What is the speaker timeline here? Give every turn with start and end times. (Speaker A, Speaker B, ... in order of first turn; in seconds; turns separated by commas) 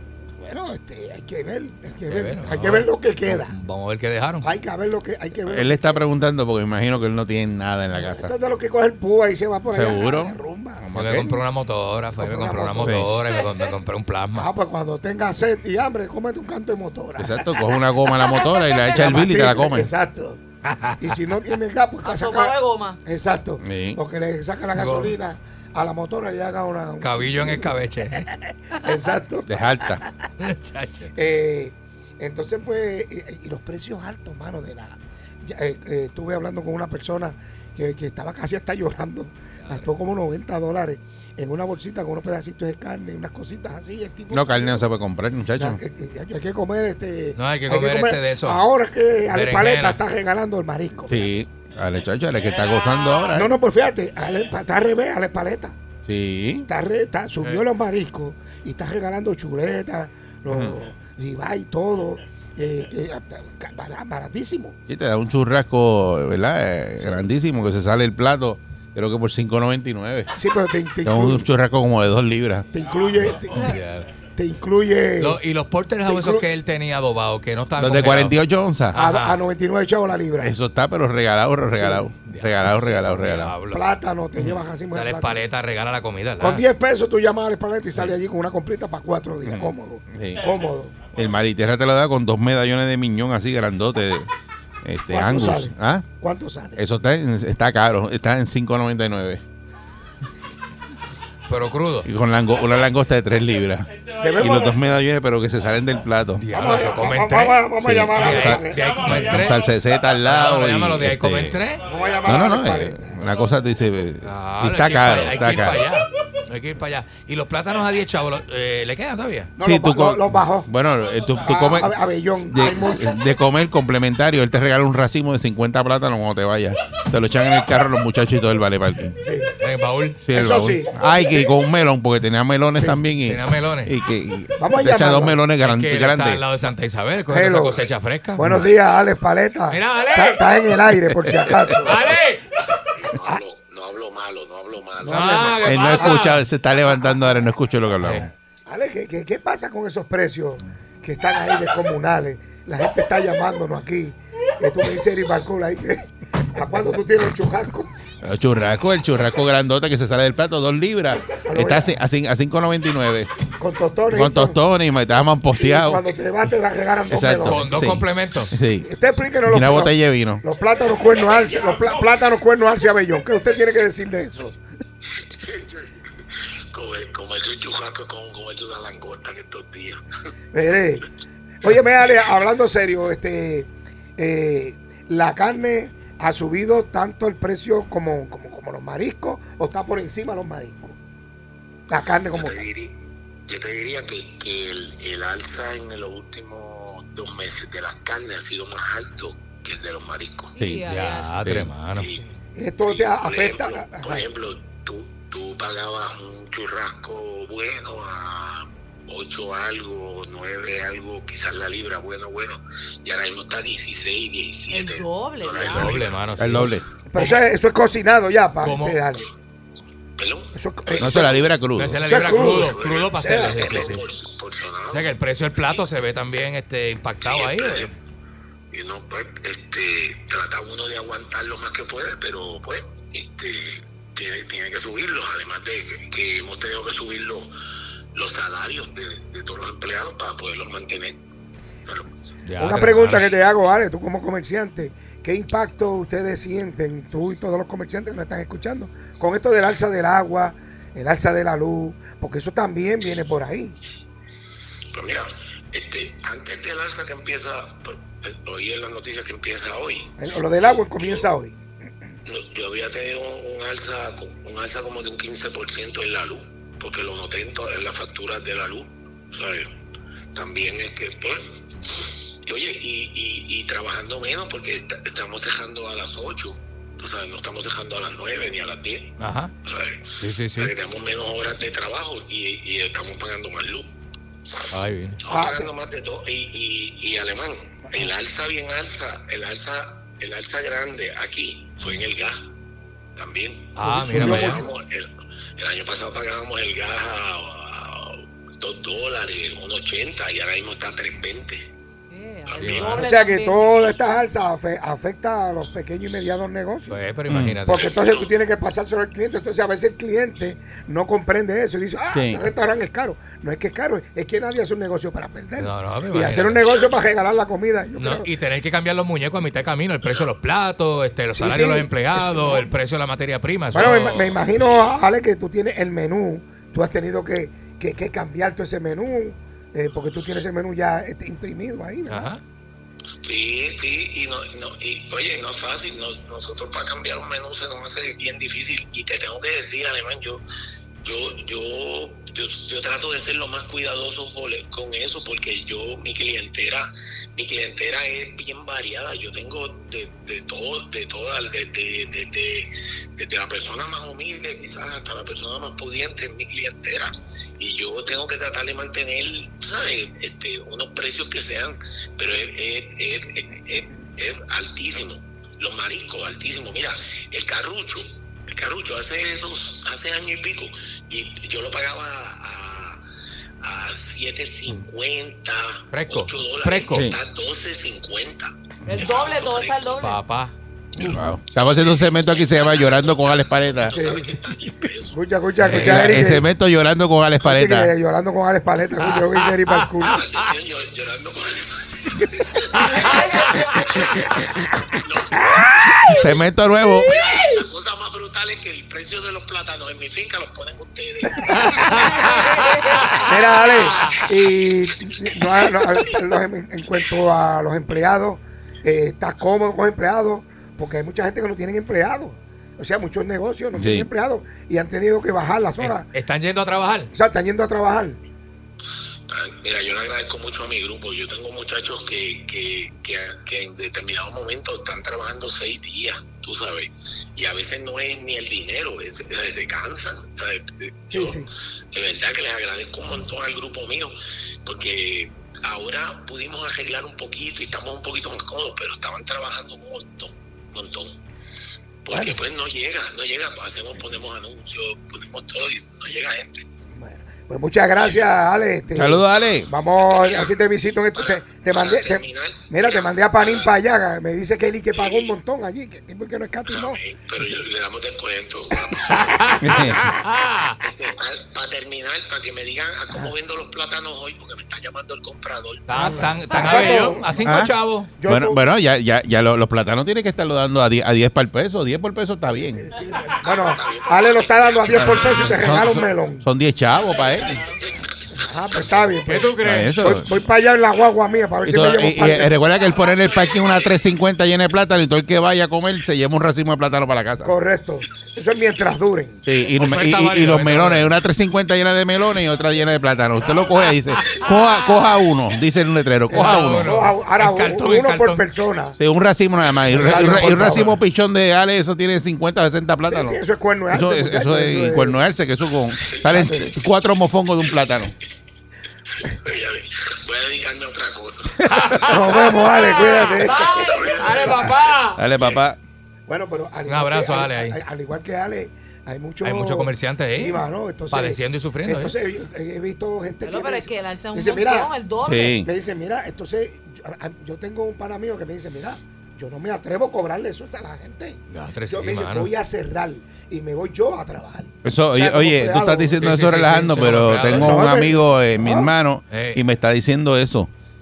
Speaker A: 0.4-3.5, Speaker B: 2.1-4.5, Speaker A: 4.4-6.0, Speaker C: 5.5-8.3, Speaker A: 8.0-10.9, Speaker C: 9.7-11.4, Speaker B: 10.9-14.5, Speaker A: 12.2-13.1, Speaker C: 12.8-13.2, Speaker A: 14.3-17.6, Speaker C: 17.2-19.9, Speaker A: 18.8-20.4, Speaker B: 20.6-21.2, Speaker A: 21.0-30.1, Speaker D: 22.0-23.0, Speaker C: 23.6-24.0, Speaker B: 24.8-25.1, Speaker B: 27.0-28.2, Speaker C: 29.5-30.0, Speaker B: 30.4-31.1, Speaker A: 31.1-44.8, Speaker C: 44.3-45.8, Speaker A: 45.6-51.2, Speaker B: 47.4-48.6, Speaker B: 49.3-50.0, Speaker C: 51.1-53.5, Speaker A: 53.3-55.8, Speaker C: 56.0-56.7, Speaker A: 56.7-64.8, Speaker C: 60.5-60.8, Speaker C: 64.9-70.4, Speaker A: 67.0-67.3, Speaker A: 70.3-71.5, Speaker C: 71.0-72.7, Speaker A: 72.7-73.8, Speaker B: 73.5-74.1, Speaker A: 74.3-75.4, Speaker B: 75.2-78.4, Speaker A: 76.0-76.5, Speaker C: 77.8-79.0, Speaker B: 78.9-79.4, Speaker A: 78.9-80.5, Speaker C: 80.4-83.5, Speaker A: 81.7-82.1, Speaker B: 82.3-83.9, Speaker A: 82.9-85.4, Speaker B: 84.9-86.6, Speaker A: 86.4-91.0, Speaker C: 89.4-90.5, Speaker C: 91.1-94.3, Speaker C: 94.8-96.0, Speaker A: 95.1-96.8, Speaker C: 96.8-99.4, Speaker B: 101.5-102.1, Speaker C: 102.0-106.5, Speaker A: 104.2-104.7, Speaker B: 106.4-109.7, Speaker A: 106.5-108.8, Speaker C: 107.8-111.6, Speaker B: 110.2-111.8, Speaker A: 111.8-113.1, Speaker C: 112.2-115.9, Speaker B: 114.2-119.5, Speaker A: 119.6-120.7, Speaker C: 119.6-129.2, Speaker A: 121.4-123.2, Speaker A: 129.2-129.5, Speaker B: 129.6-130.2, Speaker C: 130.2-136.4, Speaker A: 130.3-131.5, Speaker B: 133.3-133.9, Speaker A: 134.6-135.4, Speaker B: 135.6-138.4, Speaker A: 137.3-142.0, Speaker C: 138.4-138.7, Speaker B: 139.7-140.4, Speaker B: 141.8-142.4, Speaker E: 143.0-145.6, Speaker A: 145.0-146.2, Speaker B: 145.1-146.4, Speaker C: 145.6-148.3, Speaker B: 148.0-148.3, Speaker A: 148.7-157.9, Speaker C: 158.2-163.3, Speaker A: 161.3-161.9, Speaker A: 163.6-164.6, Speaker C: 164.1-166.0, Speaker A: 165.6-167.6, Speaker C: 167.1-168.8, Speaker B: 167.4-168.5, Speaker A: 168.8-174.6, Speaker C: 169.4-170.4, Speaker E: 175.3-180.0, Speaker A: 180.5-181.1, Speaker A: 181.6-190.9, Speaker A: 191.9-192.6, Speaker E: 192.3-200.5, Speaker D: 200.6-201.4, Speaker C: 200.6-200.8, Speaker B: 200.9-202.1, Speaker C: 201.4-201.7, Speaker E: 201.9-202.2, Speaker A: 202.6-204.2, Speaker E: 202.8-216.2, Speaker D: 214.7-216.1, Speaker B: 215.6-217.4, Speaker C: 216.4-216.8, Speaker A: 217.1-219.3, Speaker B: 218.6-219.0, Speaker E: 220.2-221.3, Speaker A: 220.5-221.4, Speaker C: 221.0-222.0, Speaker B: 221.8-224.0, Speaker A: 222.1-223.9, Speaker E: 222.1-225.8, Speaker B: 224.9-227.9, Speaker E: 227.2-227.9, Speaker E: 228.7-237.5, Speaker E: 238.1-241.2, Speaker E: 241.8-242.1, Speaker B: 242.4-243.3, Speaker A: 242.6-253.8, Speaker E: 254.9-261.3, Speaker A: 260.2-261.6, Speaker E: 262.2-269.7, Speaker E: 270.3-271.4, Speaker E: 272.4-283.9, Speaker B: 279.2-279.5, Speaker B: 280.2-280.7, Speaker B: 284.7-285.2, Speaker E: 285.2-292.5, Speaker A: 285.3-285.7, Speaker E: 293.1-301.7, Speaker B: 293.8-294.6, Speaker A: 294.0-294.7, Speaker D: 302.1-303.7, Speaker E: 302.4-303.0, Speaker B: 302.6-303.1, Speaker A: 302.9-307.0, Speaker B: 306.9-307.9, Speaker C: 307.3-307.6, Speaker A: 307.6-318.3, Speaker E: 307.7-308.3, Speaker C: 312.1-312.4, Speaker B: 315.6-316.6, Speaker E: 316.6-316.9, Speaker B: 318.0-324.4, Speaker A: 321.3-322.7, Speaker A: 323.7-332.3, Speaker B: 332.1-332.4, Speaker E: 333.2-340.4, Speaker E: 341.0-373.0, Speaker E: 373.6-380.0, Speaker B: 375.9-377.1, Speaker C: 376.9-377.2, Speaker D: 378.9-380.2, Speaker B: 380.0-380.5, Speaker C: 381.0-384.0, Speaker E: 382.0-385.1, Speaker A: 383.9-384.4, Speaker A: 385.1-386.5, Speaker C: 385.6-387.9, Speaker B: 385.6-386.2, Speaker A: 387.4-390.2, Speaker B: 389.0-389.7, Speaker E: 390.0-396.3, Speaker B: 392.8-393.0, Speaker A: 395.6-396.2, Speaker C: 396.1-397.1, Speaker E: 397.0-403.2, Speaker A: 401.3-402.0, Speaker B: 401.7-402.2, Speaker D: 402.2-403.0, Speaker A: 403.2-416.1, Speaker C: 413.7-414.1, Speaker B: 415.8-417.1, Speaker A: 417.1-418.2, Speaker E: 419.3-441.2, Speaker A: 431.1-431.5, Speaker E: 442.0-446.6, Speaker A: 446.9-457.5, Speaker C: 448.9-449.7, Speaker E: 450.1-450.5, Speaker E: 451.2-453.7, Speaker E: 454.9-455.3, Speaker E: 456.7-460.0, Speaker B: 459.1-460.8, Speaker C: 459.6-460.1, Speaker E: 460.8-466.3, Speaker B: 465.9-468.1, Speaker A: 465.9-467.6, Speaker C: 467.4-472.9, Speaker A: 468.2-468.6, Speaker A: 472.7-476.4, Speaker E: 473.4-475.6, Speaker C: 474.9-477.7, Speaker A: 478.4-482.6, Speaker B: 479.2-479.9, Speaker C: 479.6-480.3, Speaker C: 481.6-487.5, Speaker A: 487.4-489.4, Speaker C: 489.4-496.9, Speaker B: 489.7-491.1, Speaker A: 496.3-499.0, Speaker B: 496.3-498.4, Speaker C: 499.0-503.4, Speaker A: 499.9-500.9, Speaker B: 500.0-500.9, Speaker A: 503.0-505.2, Speaker C: 503.9-508.1, Speaker A: 506.2-506.7, Speaker E: 509.2-512.4, Speaker B: 511.7-512.2, Speaker A: 512.0-513.9, Speaker D: 513.4-514.3, Speaker E: 513.5-515.6, Speaker B: 514.1-515.2, Speaker C: 515.1-515.8, Speaker A: 516.3-524.9, Speaker B: 516.9-517.8, Speaker B: 519.4-522.1, Speaker D: 523.4-525.6, Speaker C: 525.2-525.7, Speaker A: 525.5-536.2, Speaker B: 531.5-532.5, Speaker C: 534.8-540.7, Speaker B: 536.2-537.8, Speaker A: 537.5-538.9, Speaker B: 539.3-539.6